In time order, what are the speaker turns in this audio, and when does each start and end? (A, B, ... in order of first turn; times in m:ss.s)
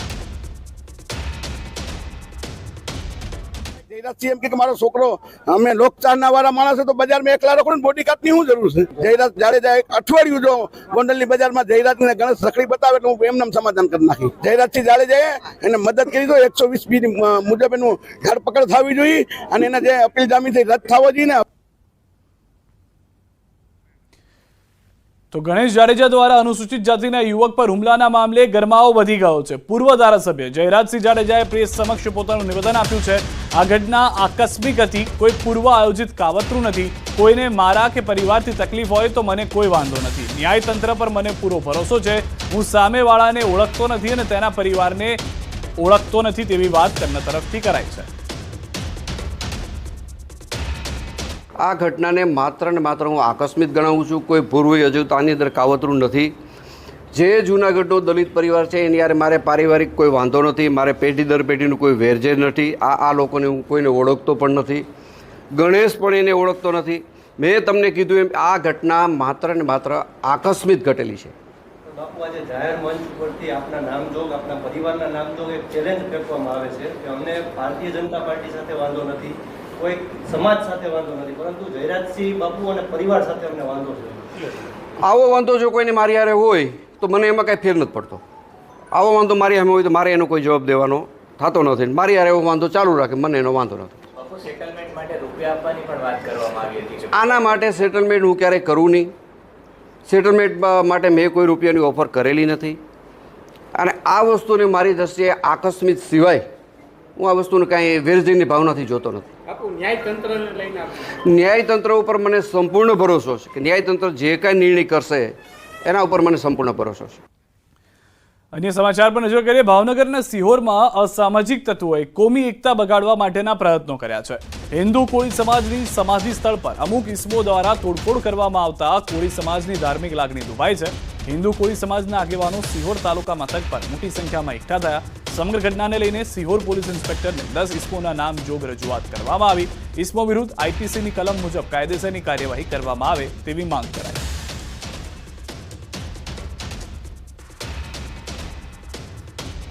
0:03.9-0:21.4 A
0:25.3-0:45.2 B
0:45.8-0:48.1 B
0:51.6-0:56.3 C
0:57.1-1:04.8 C
1:05.6-1:11.3 C
1:11.9-1:24.3 D
1:25.0-1:28.2 C
1:28.9-1:34.0 C
1:34.1-1:37.3 E
1:37.2-1:39.1 C
1:40.0-1:42.8 C
1:43.8-1:46.4 C
1:47.2-1:49.3 C
1:51.3-1:57.2 C
1:58.5-2:24.2 B